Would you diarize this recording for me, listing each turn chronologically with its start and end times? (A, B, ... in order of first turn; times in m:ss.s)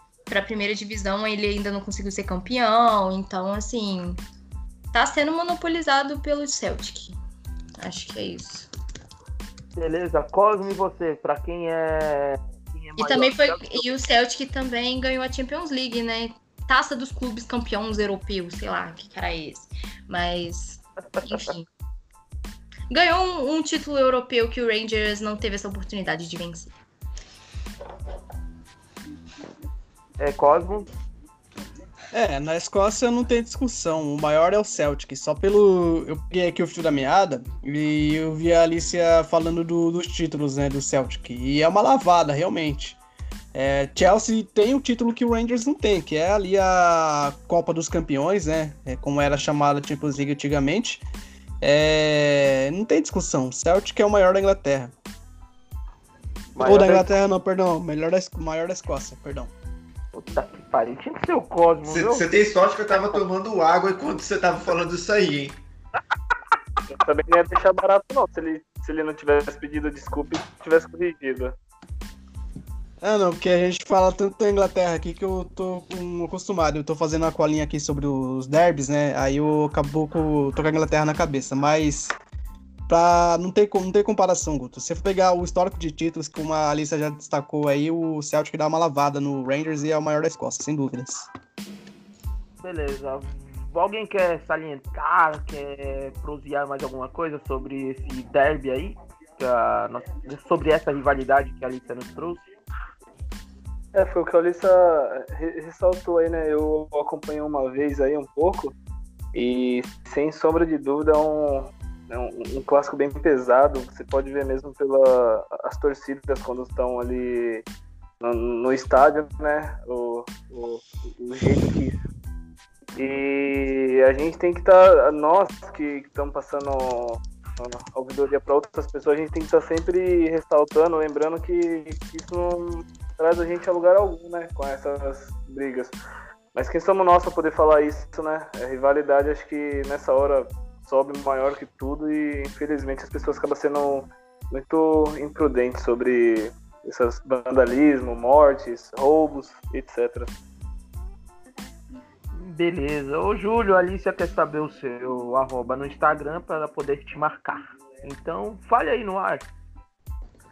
0:00.3-0:04.2 A
0:04.9-0:07.2 A
0:07.8-0:08.7 A
0:09.8-0:13.8 B
0:13.0-0:21.7 A
0:22.9-0:26.7 A
0:30.2-0:30.9 B
0:32.1-0:43.0 C
0:43.5-0:51.0 C
0:51.6-0:54.9 C
0:56.6-0:57.1 B
0:56.6-0:59.5 C
1:00.1-1:02.2 B
1:01.9-1:05.6 D
1:02.9-1:03.2 B
1:06.9-1:11.5 E
1:13.0-1:22.2 C
1:22.9-1:31.3 C
1:32.6-1:42.5 B
1:43.9-1:48.7 E
1:49.3-1:57.6 E
1:58.2-2:02.0 E
2:03.0-2:15.9 E
2:16.5-2:30.3 E
2:32.4-2:39.5 B